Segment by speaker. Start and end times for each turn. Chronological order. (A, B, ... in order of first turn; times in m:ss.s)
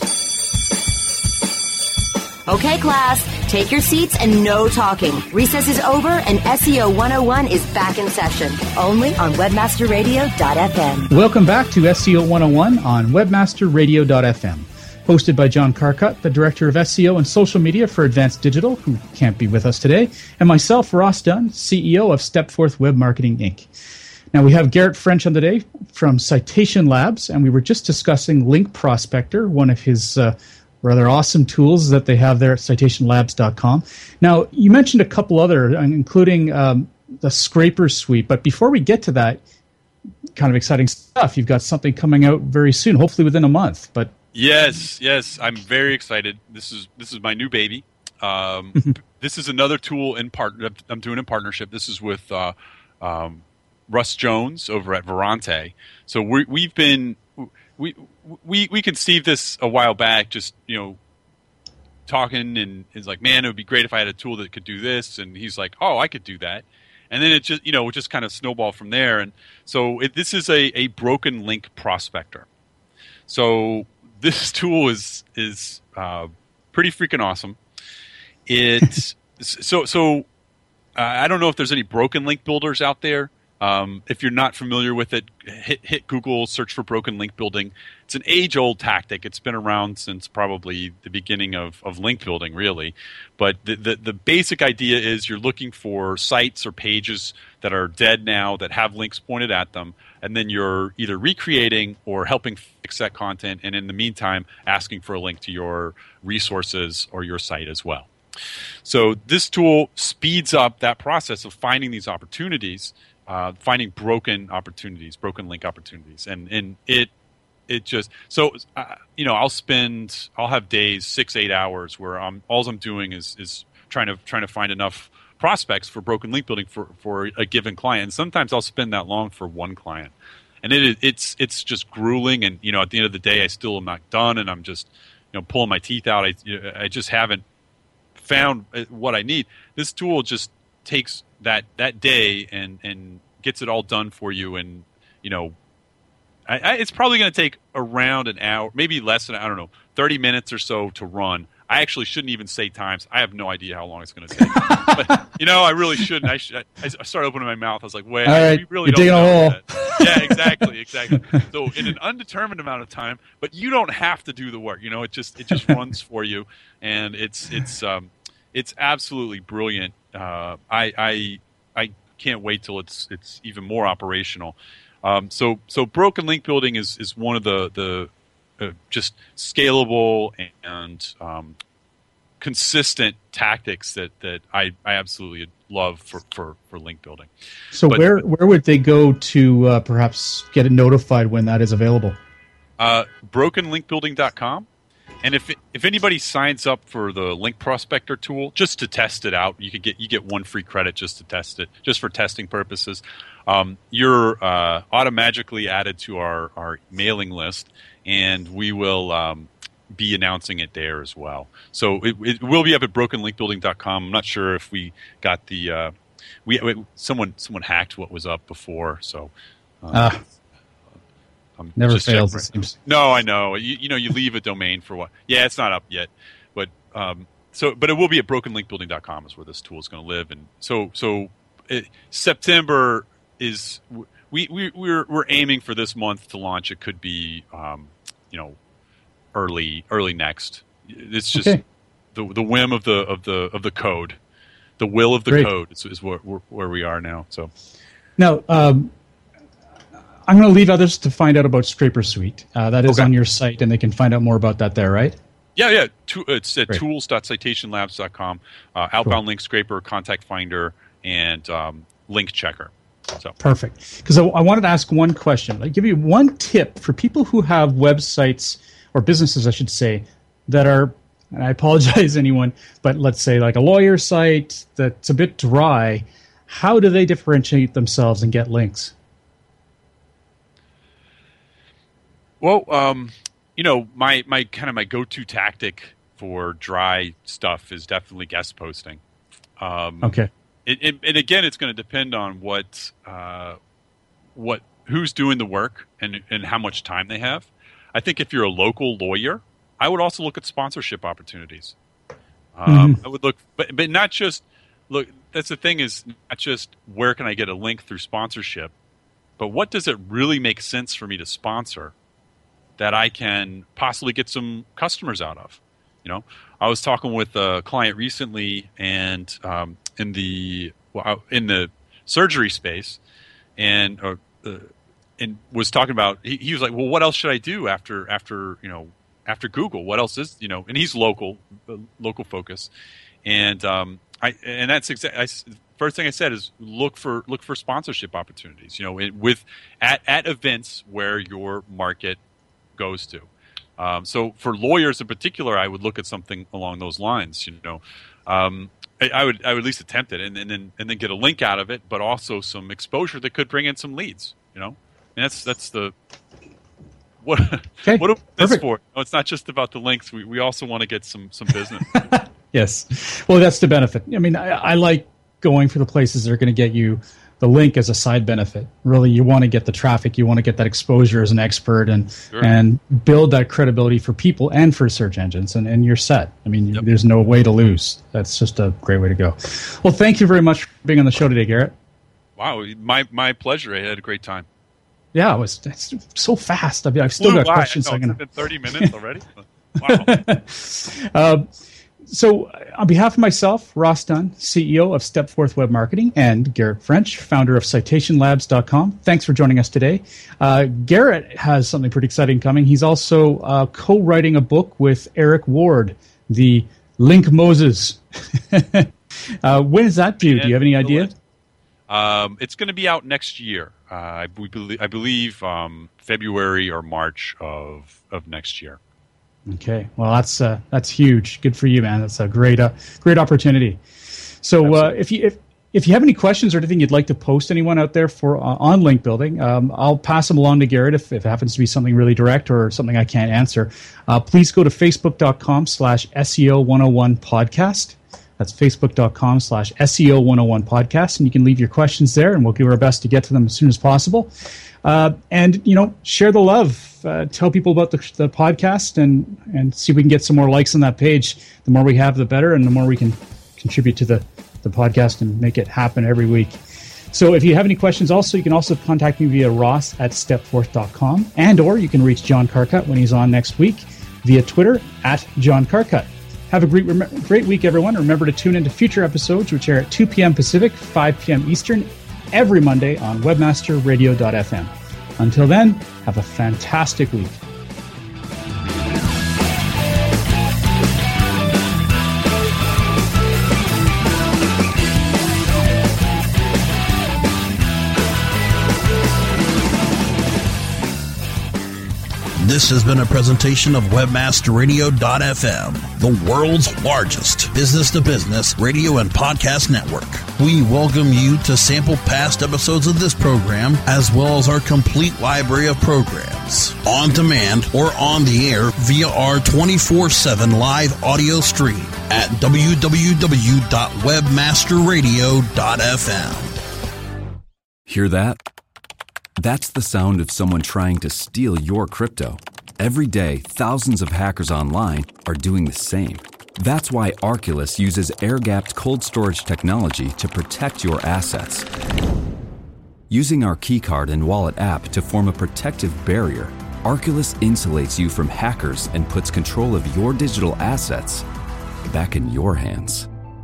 0:02.5-0:11.1 A
0:11.1-0:23.7 B
0:24.3-0:39.4 B
0:40.4-0:44.1 B
0:44.3-1:01.0 C
1:02.1-1:12.4 C
1:13.3-1:17.6 C
1:18.5-1:20.3 C
1:21.0-1:48.1 C
1:48.8-1:57.1 C
1:57.7-2:17.4 C
2:18.2-2:25.5 C
2:26.5-3:01.6 C
2:34.5-2:35.1 B
2:38.2-2:40.4 B
3:02.4-3:07.3 C
3:07.7-3:12.2 B
3:07.8-3:08.2 C
3:12.8-3:14.7 C
3:15.2-3:35.9 C
3:36.4-3:40.2 C
3:39.9-3:40.2 B
3:41.6-3:58.6 C
3:41.8-3:42.7 B
3:59.3-4:01.6 C
4:01.3-4:01.6 B
4:02.1-4:04.2 C
4:04.8-4:07.5 C
4:08.2-4:08.9 B
4:10.2-4:15.2 B
4:12.9-4:13.1 C
4:15.6-4:23.4 C
4:23.4-4:38.9 B
4:42.4-4:49.0 C
4:49.6-4:53.6 C
4:50.0-4:50.3 B
4:54.4-5:01.7 C
5:02.5-5:08.7 C
5:02.7-5:03.0 B
5:09.4-5:11.9 C
5:12.8-5:23.0 C
5:23.6-5:32.7 C
5:33.2-5:42.2 C
5:42.8-5:55.9 C
5:57.2-6:02.1 C
5:57.8-5:58.6 B
6:02.0-6:21.7 B
6:22.4-6:24.4 C
6:25.1-6:28.2 B
6:27.2-6:30.1 C
6:29.8-6:31.5 B
6:32.0-6:51.1 B
6:50.2-6:51.1 C
6:51.9-6:58.8 C
6:59.5-7:03.8 B
7:04.4-7:24.3 B
7:04.6-7:04.9 C
7:24.8-7:36.6 B
7:37.1-7:57.4 B
8:12.4-8:36.6 D
8:37.9-8:38.4 E
8:39.4-8:51.7 E
8:53.1-9:01.2 E
9:01.8-9:03.1 E